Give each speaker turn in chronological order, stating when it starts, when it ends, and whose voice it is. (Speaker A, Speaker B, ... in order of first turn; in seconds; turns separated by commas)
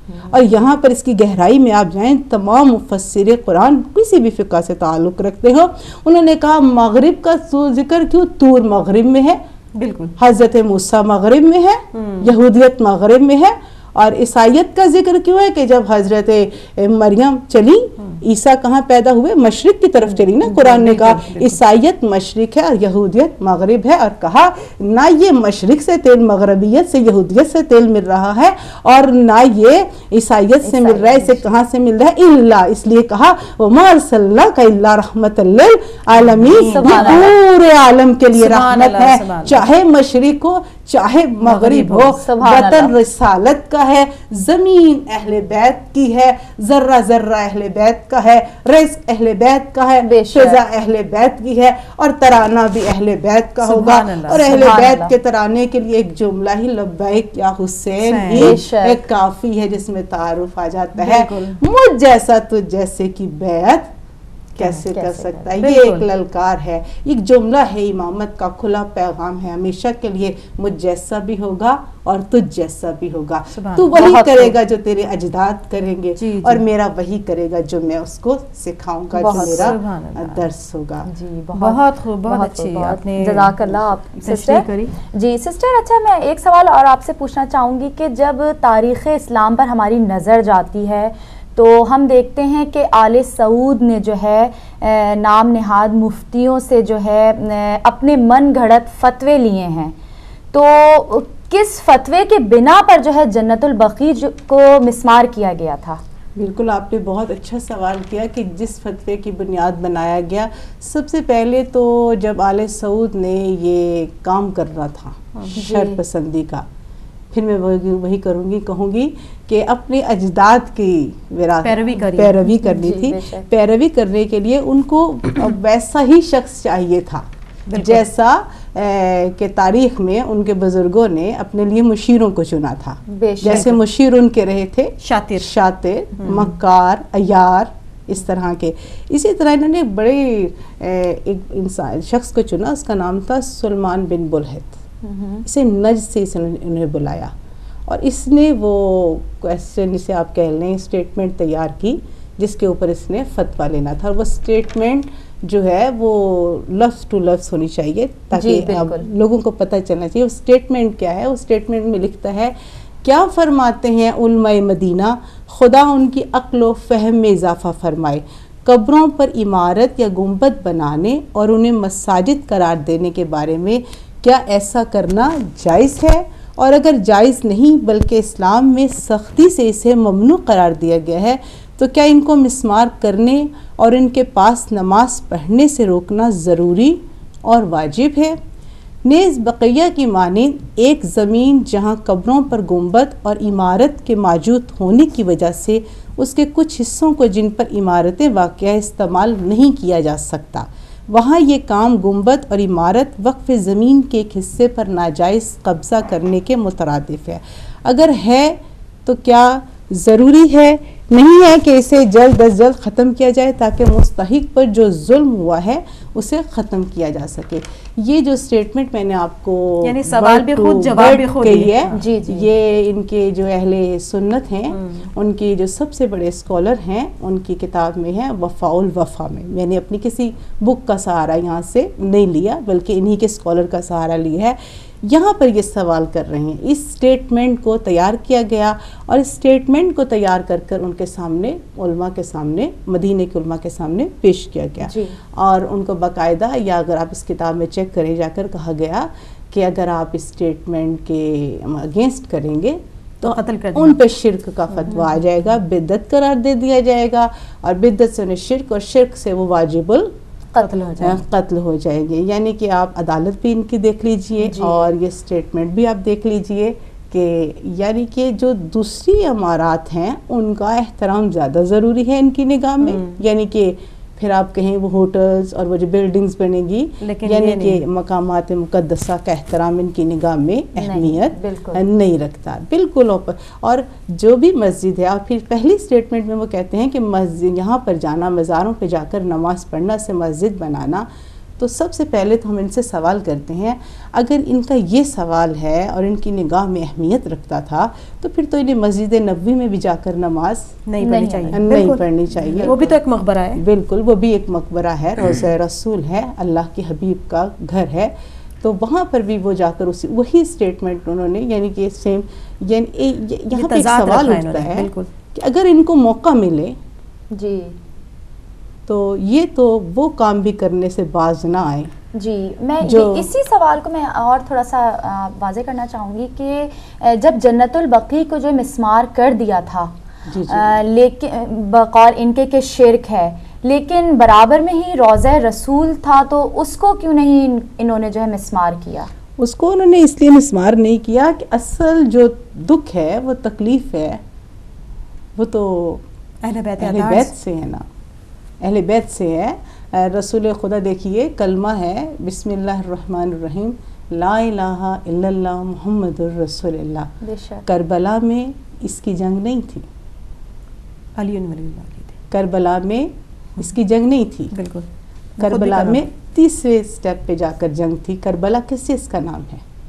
Speaker A: 0.2-9.4, Speaker B: 9.8-10.2, Speaker A: 10.2-63.9, Speaker B: 11.9-12.3, Speaker B: 20.1-21.6, Speaker C: 30.6-31.4, Speaker B: 36.1-37.3, Speaker C: 36.5-37.3, Speaker B: 38.3-39.7, Speaker B: 41.4-42.2, Speaker C: 42.2-42.9, Speaker C: 50.0-50.6, Speaker B: 53.6-54.8, Speaker C: 54.3-55.1, Speaker B: 58.0-58.6, Speaker C: 58.4-59.1, Speaker B: 61.0-61.6, Speaker A: 64.6-81.1, Speaker C: 64.7-65.5, Speaker B: 65.6-66.1, Speaker B: 73.5-74.0, Speaker C: 73.9-74.6, Speaker B: 76.2-76.6, Speaker C: 79.1-79.8, Speaker B: 79.3-80.5, Speaker C: 81.0-100.0, Speaker B: 81.6-84.9, Speaker C: 100.5-106.0, Speaker A: 106.4-116.7, Speaker C: 115.5-116.0, Speaker A: 117.3-144.8, Speaker B: 121.6-122.4, Speaker C: 122.4-123.5, Speaker B: 127.7-128.1, Speaker C: 133.1-133.8, Speaker B: 135.0-135.6, Speaker B: 136.2-136.5, Speaker C: 145.0-145.4, Speaker A: 145.4-147.3, Speaker A: 147.9-188.4, Speaker C: 158.3-159.1, Speaker A: 189.0-260.1, Speaker B: 219.8-222.0, Speaker C: 221.9-222.5, Speaker B: 224.8-225.0, Speaker C: 244.8-245.2, Speaker B: 253.3-254.0, Speaker B: 254.8-255.1, Speaker C: 260.6-260.8, Speaker B: 260.6-261.2, Speaker A: 261.0-291.1, Speaker C: 264.4-264.9, Speaker B: 272.8-273.2, Speaker B: 277.0-277.8, Speaker C: 280.8-281.8, Speaker A: 291.6-300.8, Speaker B: 300.9-303.6, Speaker C: 301.0-301.7, Speaker A: 301.5-303.0, Speaker C: 302.4-302.7, Speaker A: 303.6-316.8, Speaker B: 313.5-315.1, Speaker C: 317.3-317.8, Speaker A: 318.9-321.9, Speaker C: 322.1-329.9, Speaker A: 322.8-323.3, Speaker A: 330.3-330.8, Speaker C: 330.5-339.1, Speaker A: 339.4-344.2, Speaker A: 345.4-346.0, Speaker B: 346.4-347.3, Speaker A: 346.8-347.9, Speaker A: 348.6-357.1, Speaker C: 357.2-357.6, Speaker A: 357.6-359.9, Speaker B: 361.2-362.2, Speaker A: 362.3-364.6, Speaker B: 364.5-364.9, Speaker B: 365.4-366.1, Speaker A: 365.4-369.6